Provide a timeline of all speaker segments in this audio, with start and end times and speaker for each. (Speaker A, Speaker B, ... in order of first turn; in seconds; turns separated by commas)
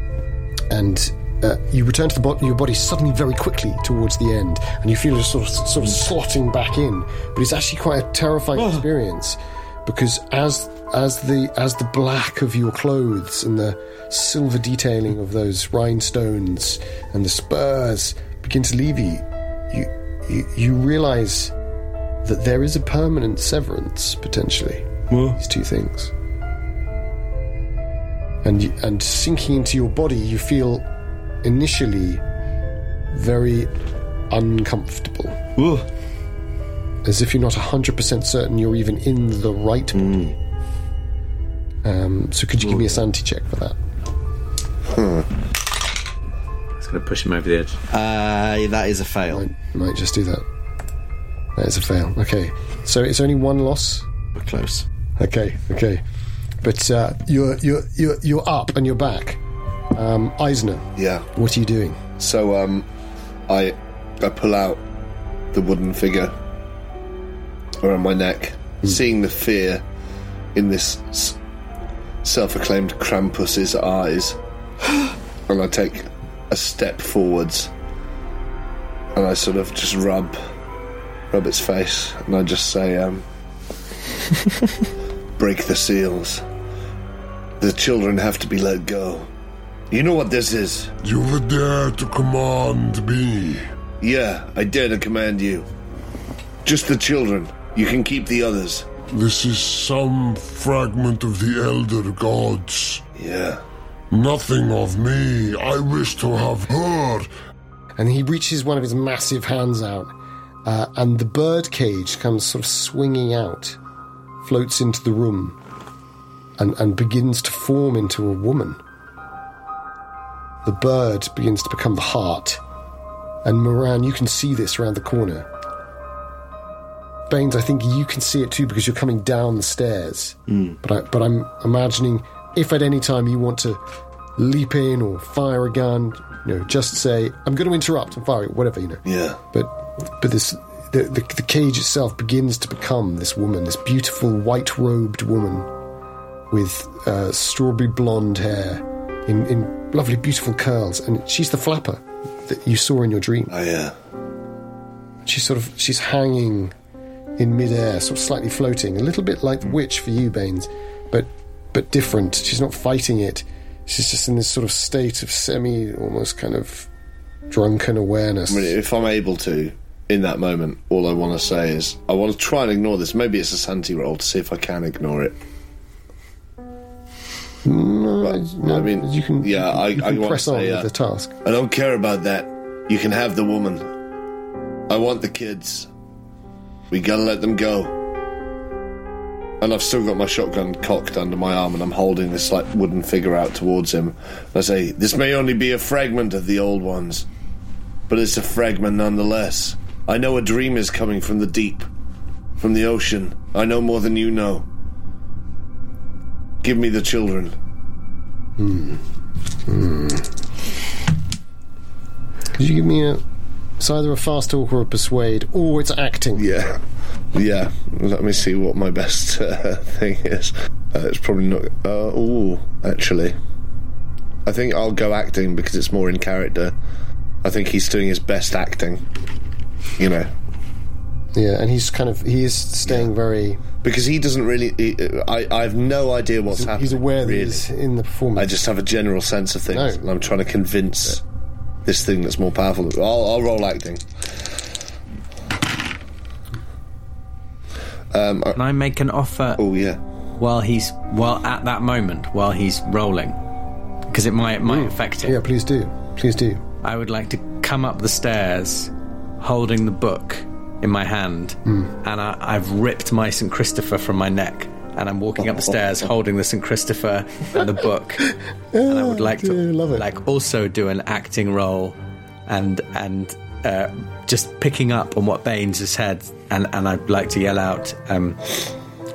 Speaker A: 0.7-21.5, Speaker B: 8.5-8.8, Speaker A: 22.2-26.1, Speaker B: 25.1-25.4, Speaker A: 28.4-30.9, Speaker A: 31.4-32.2, Speaker A: 33.1-33.7, Speaker A: 34.3-35.4, Speaker B: 35.6-35.9, Speaker A: 37.0-40.3, Speaker B: 40.0-40.3, Speaker A: 41.8-43.8, Speaker B: 42.6-42.9, Speaker C: 45.0-45.2, Speaker D: 46.8-47.8, Speaker B: 47.9-49.5, Speaker A: 49.3-50.4, Speaker A: 51.5-54.1, Speaker B: 54.3-54.9, Speaker A: 55.2-56.0, Speaker A: 56.6-59.4, Speaker A: 59.9-62.0, Speaker C: 61.0-61.3, Speaker C: 62.2-62.9, Speaker C: 63.5-64.8, Speaker C: 65.5-66.3, Speaker C: 67.8-69.8, Speaker C: 70.5-71.4, Speaker C: 72.2-74.4, Speaker C: 75.5-77.7, Speaker C: 79.1-80.4, Speaker C: 81.3-83.2, Speaker C: 85.4-86.4, Speaker C: 87.6-89.3, Speaker C: 89.9-90.9, Speaker E: 91.0-93.6, Speaker C: 94.0-95.7, Speaker C: 96.6-98.9, Speaker E: 99.1-103.0, Speaker C: 103.1-103.6, Speaker E: 104.1-107.3, Speaker A: 108.0-110.1, Speaker A: 110.6-113.8, Speaker A: 114.4-115.6, Speaker A: 116.6-118.8, Speaker A: 120.6-122.6, Speaker A: 123.4-125.5, Speaker A: 127.3-133.8, Speaker A: 134.4-145.7, Speaker C: 139.1-139.4, Speaker A: 146.5-153.5, Speaker C: 153.5-153.9, Speaker A: 155.2-156.7, Speaker A: 157.4-166.9, Speaker A: 167.5-168.8, Speaker C: 168.5-175.4, Speaker A: 177.6-181.3, Speaker C: 178.2-180.9, Speaker C: 181.4-183.9, Speaker C: 184.9-185.9, Speaker C: 186.9-187.9, Speaker C: 189.6-197.2, Speaker C: 198.1-201.9, Speaker C: 202.6-204.7, Speaker C: 206.6-207.5, Speaker A: 208.6-209.0, Speaker A: 209.7-210.3, Speaker A: 212.5-213.2, Speaker A: 213.8-216.5, Speaker C: 216.3-223.3, Speaker C: 224.4-226.7, Speaker C: 227.4-229.0, Speaker C: 230.0-230.3, Speaker A: 231.3-233.6, Speaker C: 233.8-237.6, Speaker A: 236.5-238.6, Speaker C: 238.3-241.2, Speaker A: 239.7-240.0, Speaker C: 241.8-244.5, Speaker C: 248.1-248.6, Speaker D: 248.6-249.6, Speaker C: 249.6-250.0, Speaker D: 250.4-253.4, Speaker D: 254.1-255.3, Speaker A: 254.6-256.6, Speaker D: 256.8-268.3, Speaker A: 261.6-261.9, Speaker A: 268.7-270.0, Speaker D: 268.9-271.9, Speaker D: 272.5-278.6